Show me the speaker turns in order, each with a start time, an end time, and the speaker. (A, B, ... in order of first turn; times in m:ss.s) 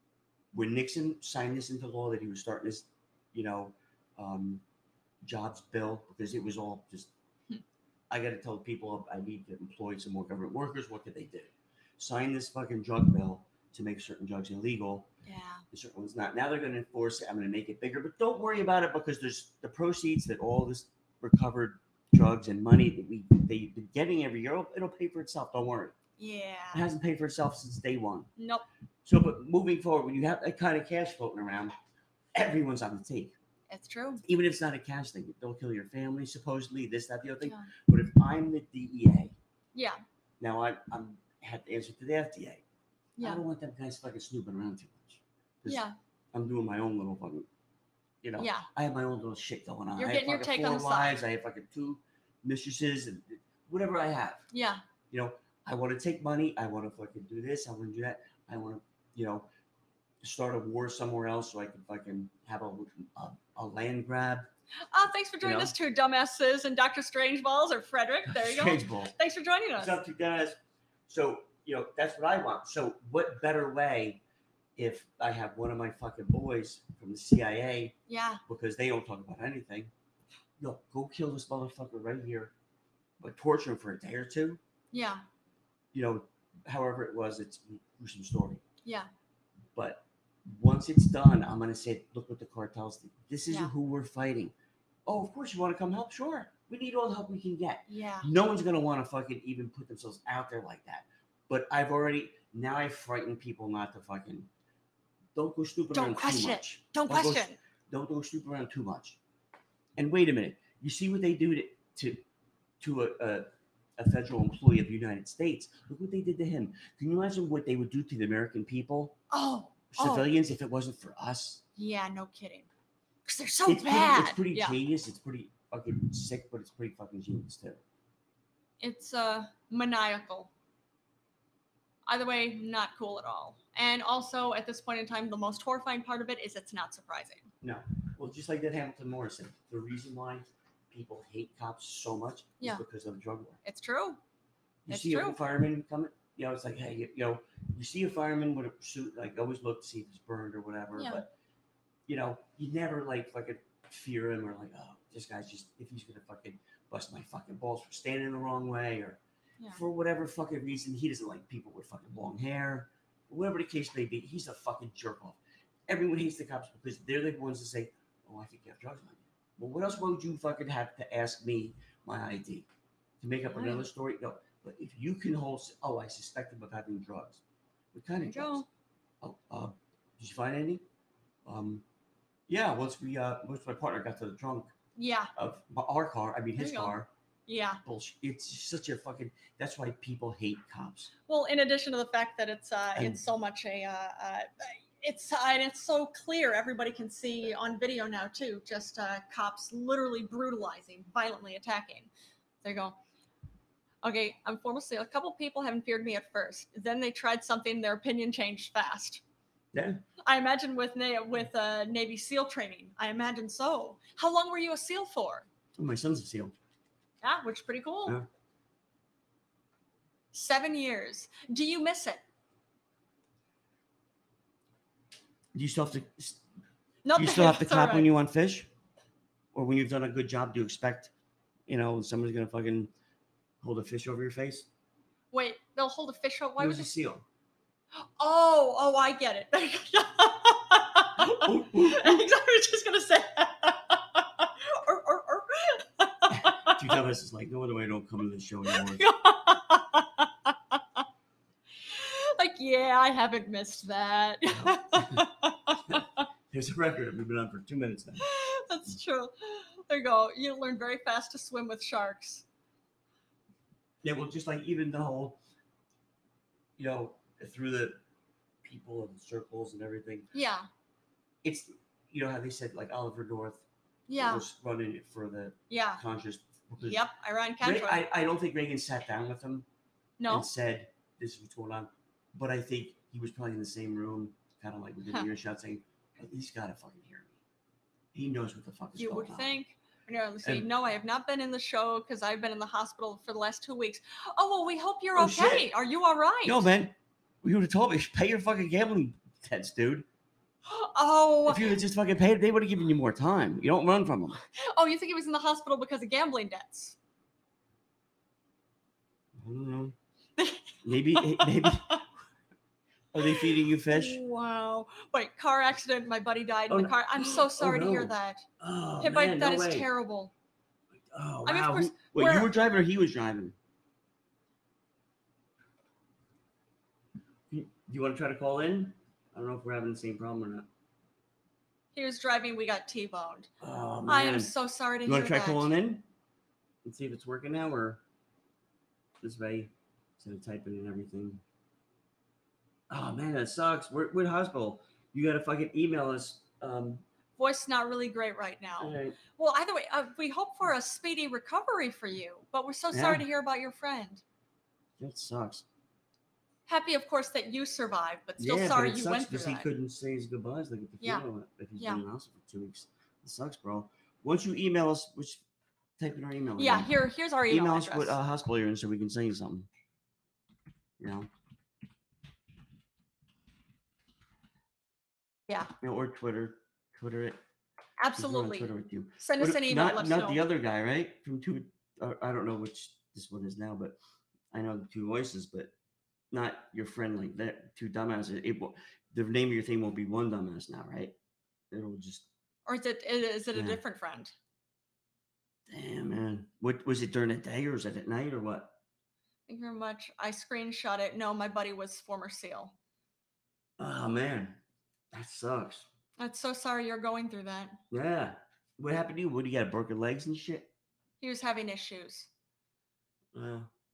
0:00.5-0:04.6 A
0:05.2-0:07.1 A
0:08.1-0:15.1 A
0:15.2-0:15.6 B
0:15.7-0:25.9 A
0:26.2-0:26.8 B
0:26.7-0:28.3 A
0:28.4-0:28.6 B
0:29.0-0:31.7 A
0:32.3-0:33.4 A
0:33.7-0:34.2 B
0:34.2-0:39.3 A
0:37.4-0:37.7 B
0:39.7-0:40.0 B
0:40.4-0:42.6 A
0:43.2-0:43.4 B
0:43.2-0:47.5 A
0:45.7-0:45.9 B
0:48.2-0:54.4 A
0:48.4-0:48.7 B
0:50.0-0:51.2 B
0:54.5-0:54.8 B
0:55.1-0:59.5 A
1:00.2-1:04.5 A
1:04.9-1:10.0 B
1:05.4-1:05.7 A
1:08.3-1:09.1 A
1:09.8-1:10.6 A
1:11.1-1:14.2 A
1:14.8-1:17.9 A
1:18.1-1:18.4 B
1:18.5-1:19.9 A
1:20.6-1:22.5 A
1:23.2-1:24.6 A
1:24.9-1:25.2 B
1:25.9-1:28.6 A
1:28.8-1:29.1 B
1:29.7-1:34.5 A
1:35.0-1:44.5 A
1:37.9-1:38.3 B
1:45.3-1:49.2 A
1:45.9-1:47.6 B
1:50.0-1:52.2 A
1:52.8-1:59.2 A
1:59.3-2:00.3 B
1:59.9-2:01.6 A
2:01.8-2:02.7 B
2:03.2-2:04.8 B
2:03.6-2:07.8 A
2:08.8-2:10.5 B
2:12.1-2:17.5 B
2:17.6-2:23.6 A
2:23.6-2:24.2 B
2:24.8-2:31.3 A
2:24.9-2:25.4 B
2:31.0-2:31.2 B
2:32.1-2:52.7 A
2:53.2-2:57.4 A
2:53.5-2:53.9 B
2:57.9-2:58.6 A
2:58.2-2:58.7 B
2:59.2-3:00.8 A
3:01.4-3:01.8 A
3:02.5-3:04.7 A
3:04.9-3:05.3 B
3:05.3-3:07.1 A
3:06.6-3:06.9 B
3:07.5-3:07.8 B
3:07.8-3:11.1 A
3:11.3-3:22.1 B
3:12.9-3:13.2 A
3:22.6-3:23.0 B
3:24.0-3:29.2 B
3:29.7-3:30.0 A
3:30.2-3:35.4 B
3:35.8-3:36.6 A
3:37.2-3:38.2 B
3:40.3-3:42.2 B
3:45.5-3:46.4 A
3:47.0-3:48.1 B
3:47.1-3:48.7 A
3:49.5-3:51.1 A
3:51.7-3:52.9 A
3:53.6-3:54.7 A
3:55.3-3:56.9 B
3:56.6-3:57.2 A
3:58.2-4:06.8 B
4:01.2-4:02.3 A
4:06.3-4:09.0 A
4:08.7-4:11.0 B
4:11.8-4:16.2 B
4:14.5-4:15.2 A
4:15.9-4:18.2 A
4:18.2-4:22.4 B
4:24.0-4:25.4 A
4:26.8-4:28.0 A
4:28.6-4:30.3 A
4:30.3-4:30.7 B
4:31.4-4:33.6 A
4:34.1-4:34.4 B
4:34.2-4:37.0 A
4:35.7-4:36.0 B
4:36.8-4:38.0 B
4:37.6-4:39.7 A
4:40.2-4:40.5 B
4:40.3-4:47.3 A
4:48.1-4:49.6 A
4:49.0-4:56.7 B
4:55.2-4:55.7 A
4:56.4-5:00.0 A
5:00.6-5:01.8 B
5:01.4-5:04.4 A
5:04.6-5:07.0 B
5:09.4-5:09.9 A
5:10.4-5:12.0 B
5:10.8-5:12.0 A
5:13.1-5:14.2 A
5:13.2-5:18.4 B
5:16.7-5:19.9 A
5:19.0-5:20.3 B
5:21.0-5:23.5 A
5:21.4-5:22.5 B
5:27.5-5:30.7 A
5:31.9-5:33.5 B
5:33.6-5:34.5 A
5:34.0-5:35.7 B
5:35.0-5:36.0 A
5:36.8-5:38.0 A
5:39.2-5:41.4 A
5:42.9-5:47.0 A
5:47.4-5:54.2 B
5:48.8-5:49.2 A
5:52.9-5:53.2 A
5:55.0-5:55.6 A
5:56.7-5:59.7 B
5:58.4-6:05.4 A
6:01.8-6:02.0 B
6:06.0-6:06.9 A
6:06.6-6:08.2 B
6:07.5-6:09.7 A
6:11.0-6:11.3 A
6:15.8-6:17.4 A
6:18.0-6:20.4 B
6:18.2-6:24.0 A
6:24.5-6:25.7 A
6:26.3-6:31.1 A
6:31.7-6:32.3 A
6:32.6-6:34.3 B
6:33.5-6:33.8 A
6:35.7-6:38.7 A
6:39.5-6:42.7 B
6:43.8-6:44.6 A
6:45.1-6:45.9 A
6:46.2-6:47.8 B
6:47.9-6:50.7 A
6:51.2-6:52.3 B
6:53.3-6:53.7 A